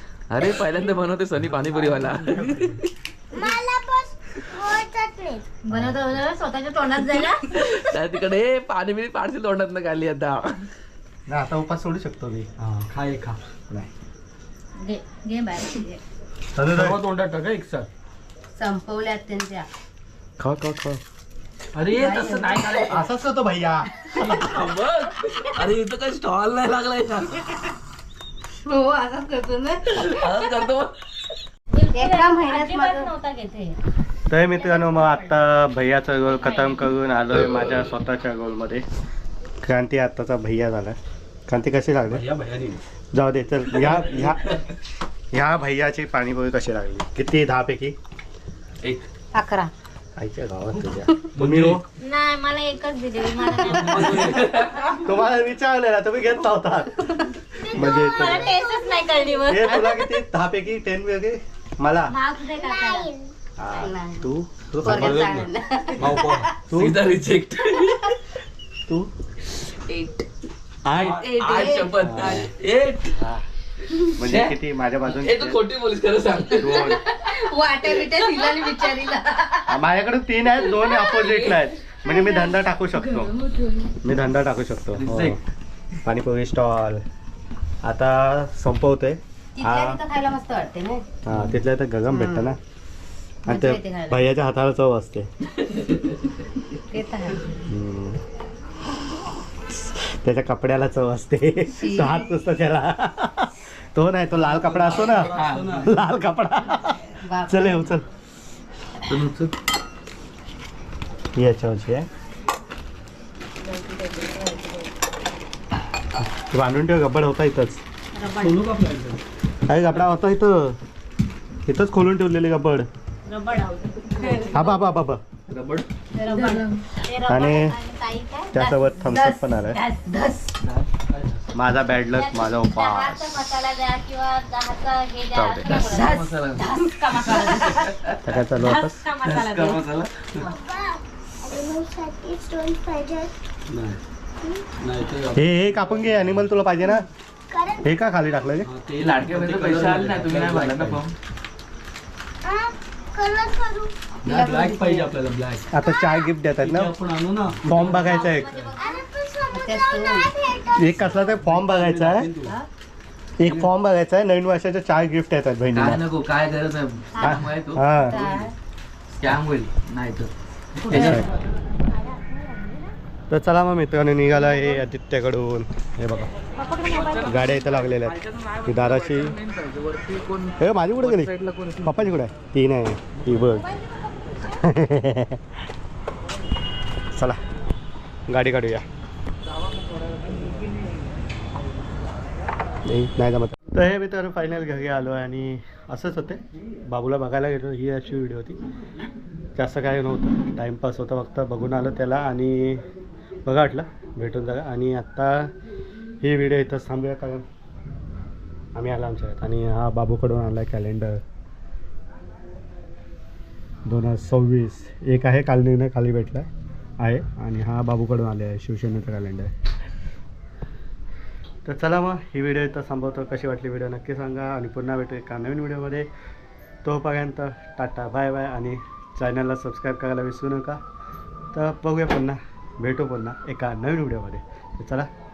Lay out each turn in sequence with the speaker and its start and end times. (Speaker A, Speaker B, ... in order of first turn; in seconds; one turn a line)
Speaker A: 0.3-2.8
Speaker B: 1.4-2.8
Speaker C: 3.3-5.6
Speaker D: 5.5-7.8
Speaker B: 5.7-6.0
Speaker A: 7.5-10.7
Speaker E: 11.3-12.5
Speaker B: 12.6-13.4
Speaker D: 14.8-16.0
Speaker E: 16.5-17.0
Speaker B: 16.6-17.9
Speaker F: 18.5-19.7
Speaker A: 20.4-20.7
Speaker E: 20.4-21.0
Speaker B: 21.7-23.1
Speaker F: 21.9-22.8
Speaker E: 22.9-24.3
Speaker B: 24.2-24.5
Speaker A: 24.2-27.6
Speaker F: 28.6-30.1
Speaker A: 29.9-30.9
Speaker D: 31.7-33.8
Speaker F: 31.9-33.1
Speaker E: 34.3-38.8
Speaker D: 34.5-35.3
Speaker D: 36.4-36.8
Speaker E: 39.6-42.2
Speaker B: 42.1-42.8
Speaker E: 43.1-44.5
Speaker E: 45.3-48.0
Speaker F: 49.3-49.7
Speaker E: 50.2-51.8
Speaker B: 51.3-51.8
Speaker D: 52.0-54.3
Speaker F: 53.4-53.9
Speaker B: 53.6-54.5
Speaker A: 54.0-55.0
Speaker E: 55.0-58.6
Speaker D: 57.6-60.1
Speaker E: 59.5-62.2
Speaker D: 62.1-63.1
Speaker C: 62.5-63.3
Speaker E: 63.6-65.5
Speaker F: 63.7-64.3
Speaker B: 64.8-66.5
Speaker F: 64.8-66.5
Speaker E: 66.7-67.0
Speaker A: 66.7-68.2
Speaker F: 69.7-70.2
Speaker E: 70.8-71.2
Speaker A: 70.9-73.1
Speaker B: 71.0-71.5
Speaker F: 71.4-72.0
Speaker E: 71.8-72.5
Speaker E: 73.2-73.5
Speaker A: 73.9-77.0
Speaker E: 74.2-75.6
Speaker E: 76.6-77.0
Speaker F: 76.6-79.8
Speaker E: 79.7-83.3
Speaker A: 80.8-81.7
Speaker F: 82.1-84.0
Speaker E: 84.0-85.4
Speaker A: 85.0-85.4
Speaker E: 86.0-87.0
Speaker E: 87.8-90.0
Speaker F: 89.6-91.0
Speaker E: 91.2-92.6
Speaker F: 92.1-92.5
Speaker F: 93.4-94.3
Speaker E: 93.5-95.3
Speaker A: 95.7-96.2
Speaker F: 96.9-97.5
Speaker E: 97.7-98.2
Speaker E: 99.7-108.0
Speaker F: 101.7-102.3
Speaker B: 104.3-105.9
Speaker A: 105.3-105.9
Speaker F: 107.2-107.9
Speaker A: 109.1-109.5
Speaker E: 111.3-112.0
Speaker F: 113.6-114.9
Speaker E: 116.3-117.8
Speaker F: 118.1-118.6
Speaker B: 118.4-119.2
Speaker E: 119.7-120.8
Speaker E: 121.7-122.9
Speaker F: 123.3-124.6
Speaker E: 124.4-125.2
Speaker A: 125.5-125.8
Speaker F: 126.1-126.8
Speaker D: 126.9-129.0
Speaker E: 127.2-127.8
Speaker E: 128.5-129.8
Speaker F: 129.0-130.5
Speaker A: 130.6-130.9
Speaker B: 131.1-131.5
Speaker E: 131.5-133.4
Speaker D: 132.1-136.3
Speaker E: 135.3-135.7
Speaker A: 135.6-138.2
Speaker F: 136.6-136.9
Speaker D: 136.8-137.9
Speaker E: 138.2-139.1
Speaker D: 138.6-139.8
Speaker A: 139.2-140.4
Speaker C: 140.5-143.3
Speaker B: 143.7-144.0
Speaker B: 144.8-146.3
Speaker E: 145.3-147.1
Speaker C: 147.5-147.8
Speaker E: 147.8-148.7
Speaker B: 148.6-151.0
Speaker A: 149.0-151.1
Speaker C: 152.4-153.9
Speaker B: 154.2-155.7
Speaker F: 154.2-155.1
Speaker E: 155.7-156.9
Speaker C: 155.9-156.2
Speaker B: 156.5-158.8
Speaker E: 157.6-158.6
Speaker D: 158.1-160.8
Speaker C: 158.8-159.5
Speaker F: 159.5-160.3
Speaker C: 160.0-161.1
Speaker E: 160.8-162.3
Speaker B: 160.9-162.6
Speaker E: 163.4-166.0
Speaker B: 163.4-163.7
Speaker A: 165.7-168.5
Speaker E: 167.2-168.2
Speaker F: 168.0-168.5
Speaker A: 169.2-170.3
Speaker B: 170.7-171.4
Speaker E: 170.9-171.3
Speaker D: 171.9-172.9
Speaker E: 173.3-176.3
Speaker D: 176.6-177.3
Speaker A: 176.8-182.1
Speaker E: 177.2-179.3
Speaker E: 180.6-181.3
Speaker E: 181.8-183.7
Speaker D: 183.5-184.7
Speaker E: 184.4-185.4
Speaker E: 187.1-187.4
Speaker E: 188.3-188.8
Speaker A: 189.4-190.4
Speaker E: 192.8-198.6
Speaker E: 199.6-202.8
Speaker E: 203.4-205.5
Speaker E: 206.2-207.4
Speaker E: 208.7-211.2
Speaker E: 213.8-216.5
Speaker E: 217.0-219.5
Speaker E: 221.6-226.1
Speaker E: 226.8-230.8
Speaker E: 231.5-235.1